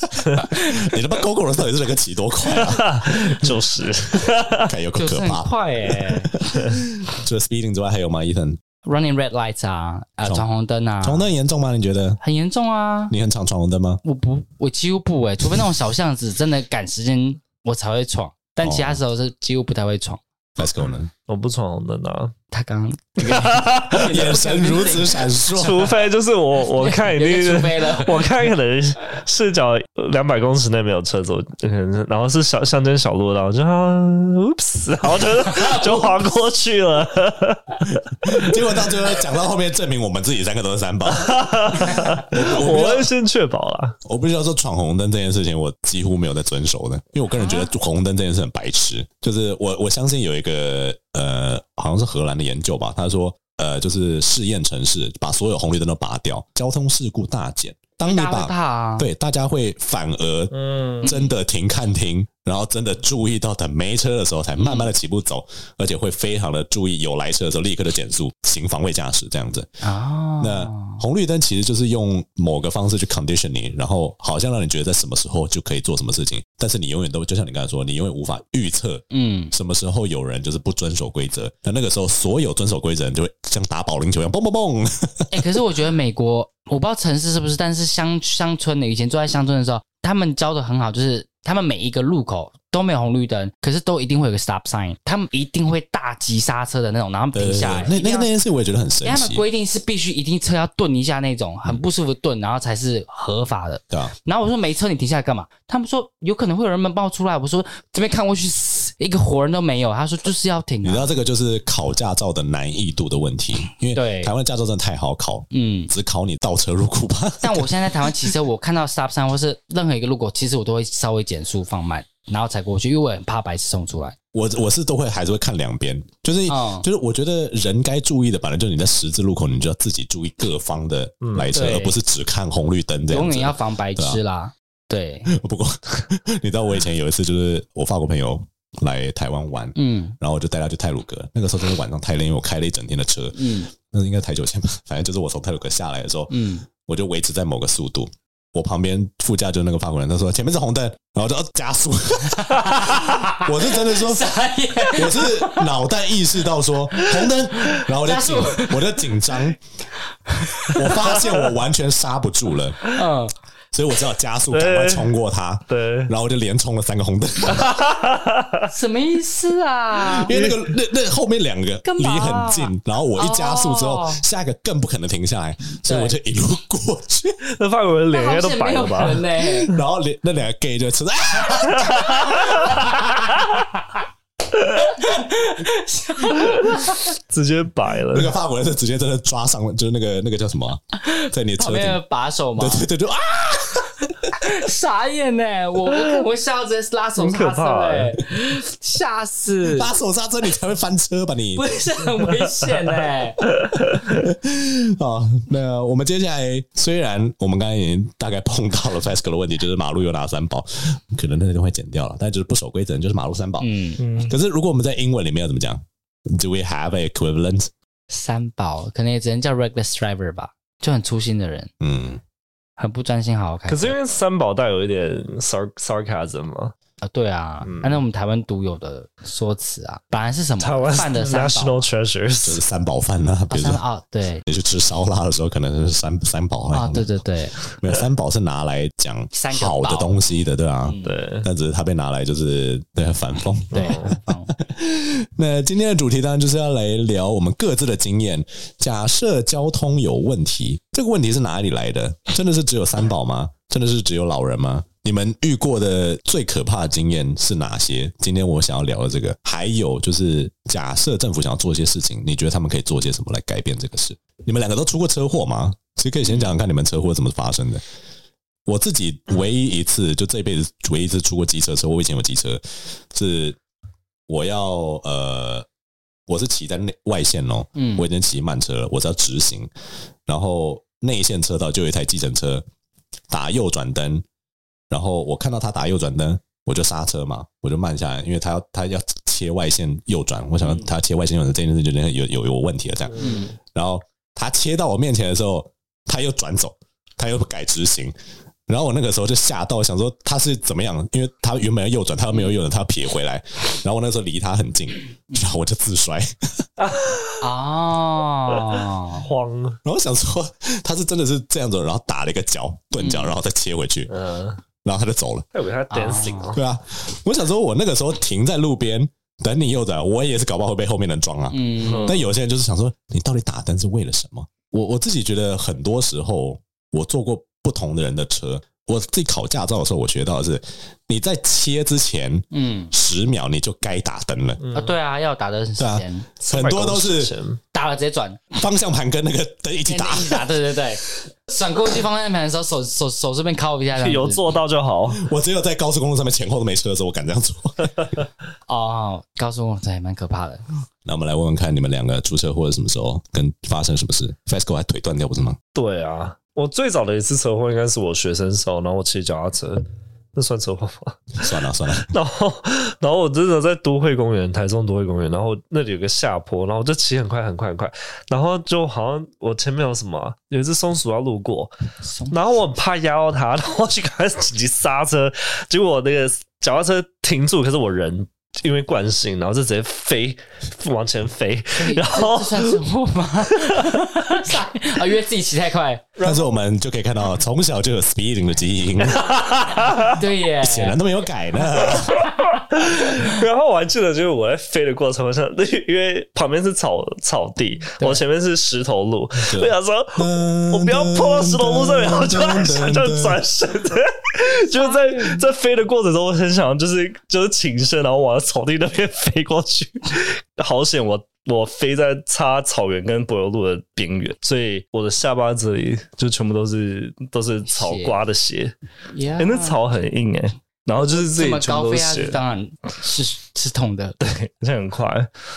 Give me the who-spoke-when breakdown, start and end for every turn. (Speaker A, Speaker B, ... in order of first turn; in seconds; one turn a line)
Speaker A: 0.4-0.9
Speaker B: 0.5-3.5
Speaker C: 2.5-4.7
Speaker B: 4.5-8.6
Speaker A: 5.0-6.4
Speaker A: 8.8-11.3
Speaker B: 11.0-12.2
Speaker A: 12.2-13.1
Speaker B: 13.1-14.0
Speaker A: 14.0-20.2
Speaker B: 15.4-15.7
Speaker B: 18.6-19.0
Speaker B: 20.6-21.1
Speaker C: 21.3-22.3
Speaker A: 22.5-25.2
Speaker C: 23.2-24.0
Speaker B: 24.0-25.9
Speaker C: 25.5-38.5
Speaker A: 26.8-28.3
Speaker A: 35.5-36.1
Speaker B: 38.2-43.1
Speaker C: 41.1-44.0
Speaker B: 44.0-69.7
Speaker A: 47.4-47.7
Speaker A: 58.0-59.1
Speaker C: 60.5-61.1
Speaker A: 61.0-61.4
Speaker A: 64.6-64.9
Speaker A: 69.8-71.0
Speaker B: 70.4-85.6
Speaker A: 79.1-79.5
Speaker A: 85.3-98.3
Speaker B: 97.3-99.4
Speaker A: 99.0-111.1
Speaker B: 110.8-118.3
Speaker A: 113.9-114.3
Speaker A: 115.5-115.9
Speaker A: 117.4-124.2
Speaker B: 124.3-134.2
Speaker A: 126.5-126.9
Speaker C: 131.2-131.6
Speaker A: 131.5-132.0
Speaker A: 133.1-135.3
Speaker B: 135.2-154.3
Speaker A: 139.8-140.2
Speaker A: 143.3-143.7
Speaker A: 146.3-146.7
Speaker A: 152.4-155.8
Speaker B: 154.9-159.6
Speaker A: 157.8-159.0
Speaker A: 160.3-160.9
Speaker B: 160.7-162.8
Speaker A: 162.9-163.3
Speaker B: 163.7-167.9
Speaker C: 164.5-165.1
Speaker C: 165.7-166.1
Speaker C: 167.5-168.7
Speaker A: 168.7-170.4
Speaker B: 170.0-177.4
Speaker C: 170.3-170.6
Speaker A: 171.8-174.2
Speaker A: 175.8-176.2
Speaker C: 177.4-179.8
Speaker A: 178.1-179.7
Speaker B: 179.7-182.8
Speaker C: 181.6-183.0
Speaker A: 182.3-183.3
Speaker A: 184.7-187.0
Speaker C: 186.4-188.3
Speaker B: 188.1-192.0
Speaker A: 191.0-192.9
Speaker B: 192.6-194.5
Speaker A: 194.2-199.9
Speaker C: 197.2-198.2
Speaker B: 199.6-201.7
Speaker A: 201.5-203.4
Speaker C: 203.6-204.2
Speaker B: 204.1-217.7
Speaker A: 213.6-214.2
Speaker C: 214.0-214.3
Speaker A: 218.1-221.7
Speaker B: 221.8-222.2
Speaker A: 222.8-224.0
Speaker C: 223.7-226.8
Speaker A: 227.0-231.9
Speaker C: 227.6-228.0
Speaker C: 230.6-232.6
Speaker B: 232.4-233.8
Speaker A: 233.5-234.4
Speaker B: 234.5-237.1
Speaker A: 236.7-237.6
Speaker B: 237.7-267.8
Speaker A: 239.3-240.2
Speaker A: 240.8-241.1
Speaker C: 241.0-241.5
Speaker C: 243.7-244.2
Speaker A: 243.7-244.5
Speaker B: 268.7-273.6
Speaker B: 274.3-275.7
Speaker B: 276.3-279.7
Speaker A: 277.8-278.0
Speaker B: 280.2-282.6
Speaker B: 283.3-284.2
Speaker B: 284.9-298.1
Speaker C: 293.1-293.5
Speaker A: 293.2-293.5
Speaker B: 298.7-306.6
Speaker C: 306.8-307.5
Speaker A: 307.4-309.2
Speaker C: 308.5-309.8
Speaker B: 309.8-314.1
Speaker A: 313.0-313.4
Speaker C: 314.1-314.6
Speaker B: 314.8-315.5
Speaker C: 315.5-316.6
Speaker A: 315.9-316.6
Speaker B: 316.6-334.6
Speaker A: 321.5-322.2
Speaker C: 321.9-322.2
Speaker A: 332.5-332.9
Speaker C: 334.6-335.0
Speaker A: 334.7-336.3
Speaker B: 335.8-337.3
Speaker C: 336.5-337.6
Speaker A: 337.7-338.4
Speaker B: 338.5-340.5
Speaker A: 339.9-344.4
Speaker C: 343.9-345.2
Speaker B: 345.1-348.2
Speaker A: 348.7-350.6
Speaker B: 351.0-355.6
Speaker C: 355.7-361.4
Speaker B: 361.4-362.1
Speaker C: 362.0-371.7
Speaker A: 372.0-372.5
Speaker C: 372.3-382.8
Speaker A: 381.8-386.1
Speaker C: 383.5-384.0
Speaker C: 386.2-386.5
Speaker B: 386.2-389.2
Speaker C: 389.1-390.2
Speaker A: 390.0-391.0
Speaker B: 390.6-392.2
Speaker C: 391.8-418.8
Speaker A: 391.9-392.3
Speaker A: 398.0-398.2
Speaker B: 399.4-403.4
Speaker A: 404.8-405.4
Speaker A: 417.7-418.1
Speaker A: 419.1-419.8
Speaker C: 419.4-422.4
Speaker A: 421.0-424.2
Speaker C: 424.2-425.3